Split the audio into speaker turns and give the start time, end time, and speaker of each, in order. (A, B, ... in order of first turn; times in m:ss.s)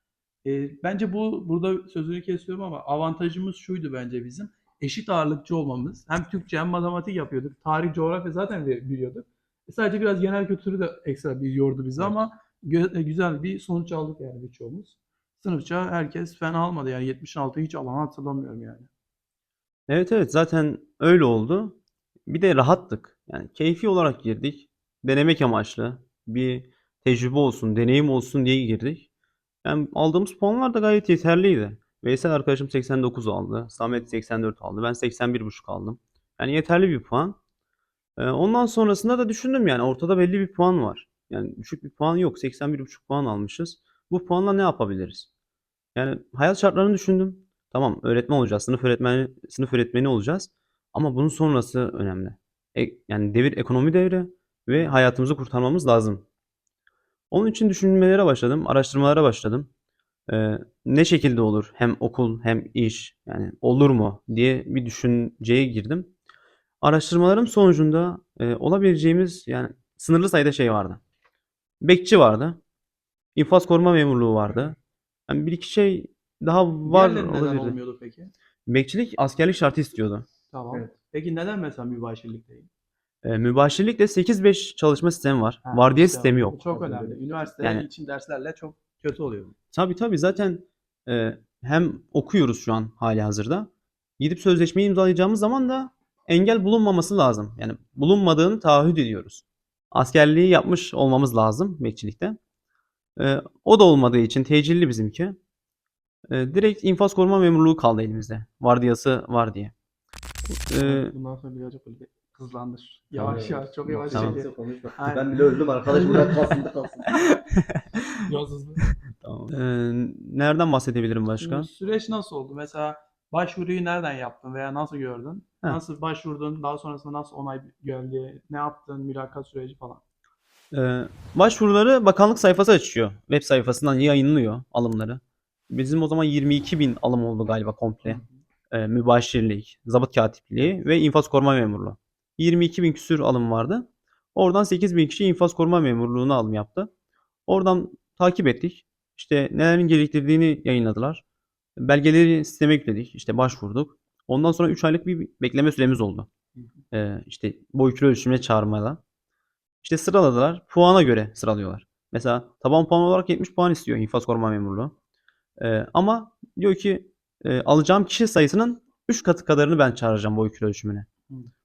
0:00.4-0:18.9 A
0:19.9-0:29.1 B
0:29.6-0:37.4 B
0:38.2-0:45.3 B
0:45.9-0:56.2 B
0:57.3-0:59.7 B
1:00.3-1:06.1 B
1:06.8-1:11.0 B
1:11.8-1:12.6 B
1:13.4-1:14.8 B
1:15.3-1:17.8 B
1:16.8-1:18.3 A
1:18.7-1:20.2 B
1:20.5-1:22.7 A
1:23.2-1:26.6 B
1:25.6-1:29.5 A
1:26.7-1:27.2 C
1:27.6-1:27.9 B
1:29.7-1:42.4 B
1:43.2-1:45.4 B
1:46.3-1:49.7 B
1:50.5-1:51.1 B
1:50.8-1:55.4 A
1:53.1-1:57.1 C
1:54.1-1:54.4 B
1:55.9-1:56.6 A
1:57.5-1:58.0 B
1:58.2-1:58.8 A
1:59.2-2:01.7 B
2:01.4-2:10.0 A
2:10.7-2:26.9 B
2:18.0-2:18.3 A
2:27.5-2:31.2 B
2:31.8-2:36.3 B
2:36.9-2:39.0 B
2:39.8-2:44.9 B
2:45.6-2:51.1 B